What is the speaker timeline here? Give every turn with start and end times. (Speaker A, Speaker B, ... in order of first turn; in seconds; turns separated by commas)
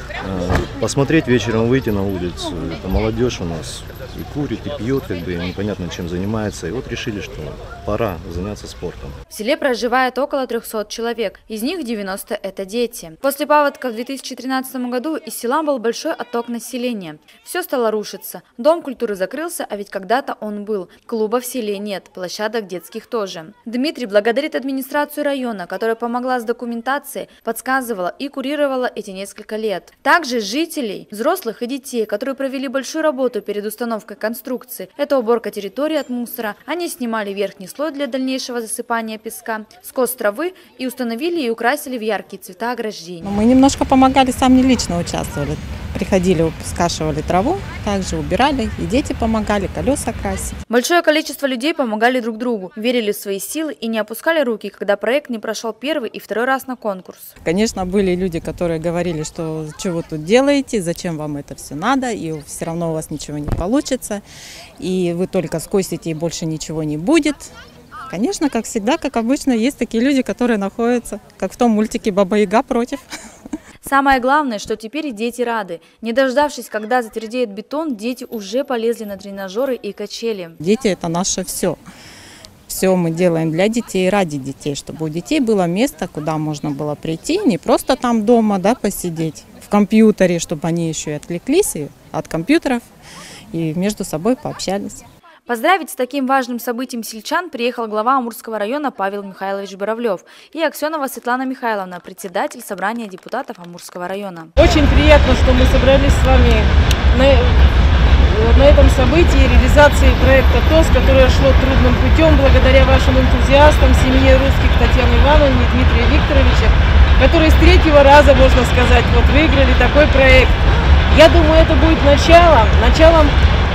Speaker A: 0.2-9.2, Speaker B: 9.3-43.3, Speaker C: 43.2-50.6, Speaker B: 50.7-57.3, Speaker C: 57.4-64.2, Speaker C: 64.8-67.5, Speaker C: 68.1-73.0, Speaker B: 73.8-80.6, Speaker C: 80.6-81.8, Speaker C: 82.7-92.9, Speaker C: 93.5-95.0, Speaker B: 95.5-104.5, Speaker D: 104.6-107.6, Speaker D: 108.2-120.6, Speaker D: 121.1-123.3